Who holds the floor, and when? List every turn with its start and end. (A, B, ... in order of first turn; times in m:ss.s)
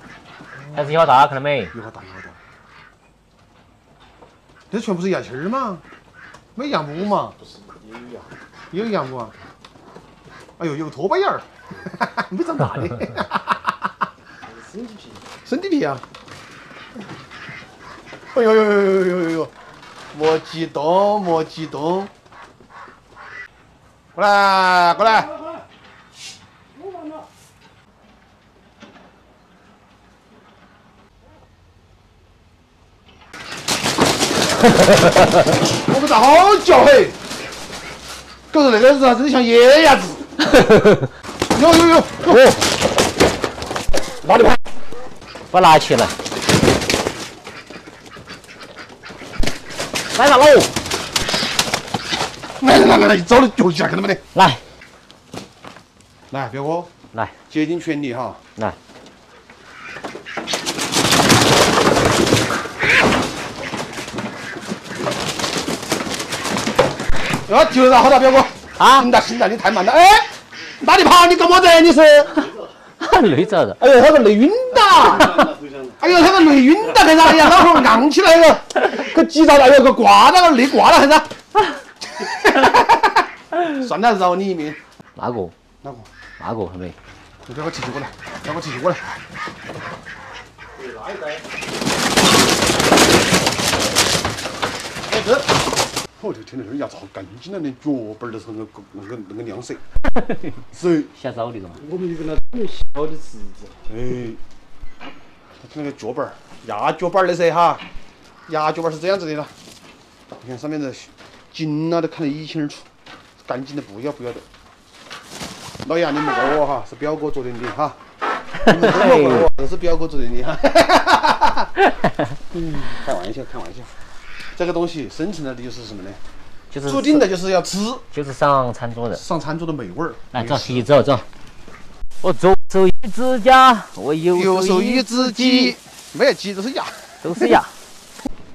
0:00.7-0:01.7 A
0:01.7-0:02.4 B
0:04.7-0:05.8 B
0:06.6-0:07.4 B
0:07.4-0:08.3 C
0:08.7-0:09.3 B
0:10.6-0:13.9 B
0:14.4-0:15.2 C
0:15.4-0:16.0 B
0:18.3-0:19.5 B
0:20.1-0:22.1 B
0:24.2-0:25.3 B
0:26.8-0:27.1 C
0:35.7-0:37.2 B
0:38.5-0:40.2 B
0:40.5-0:41.1 A
0:41.5-0:42.6 B
0:42.3-0:42.6 A
0:44.2-0:44.6 B
0:45.5-0:46.2 A
0:50.1-0:50.7 A
0:52.6-0:54.2 B
0:54.4-0:54.6 A
0:56.3-0:56.9 B
0:57.5-0:58.4 B
1:07.5-1:12.5 B
1:08.8-1:09.1 A
1:13.0-1:13.8 A
1:13.8-1:21.3 B
1:15.0-1:15.9 C
1:15.2-1:15.5 A
1:22.2-1:24.8 B
1:25.2-1:25.5 A
1:25.8-1:26.1 B
1:26.4-1:27.0 A
1:27.5-1:29.2 B
1:30.8-1:31.4 C
1:35.1-1:35.4 C
1:36.2-1:39.8 B
1:40.1-1:41.8 A
1:40.7-1:41.1 B
1:41.8-1:43.8 C
1:43.9-1:44.4 B
1:45.6-1:47.8 B
1:48.5-1:49.5 B
1:50.4-1:52.9 B
1:53.4-1:54.4 B
1:55.8-1:58.0 B
1:58.6-1:59.5 A
1:58.7-2:01.7 B
2:02.5-2:03.9 B
2:04.5-2:06.2 B
2:06.7-2:07.2 A
2:06.8-2:08.0 B
2:08.1-2:09.2 A
2:09.1-2:10.9 B
2:10.3-2:11.3 A
2:12.2-2:15.8 A
2:14.3-2:17.6 B
2:17.2-2:17.7 A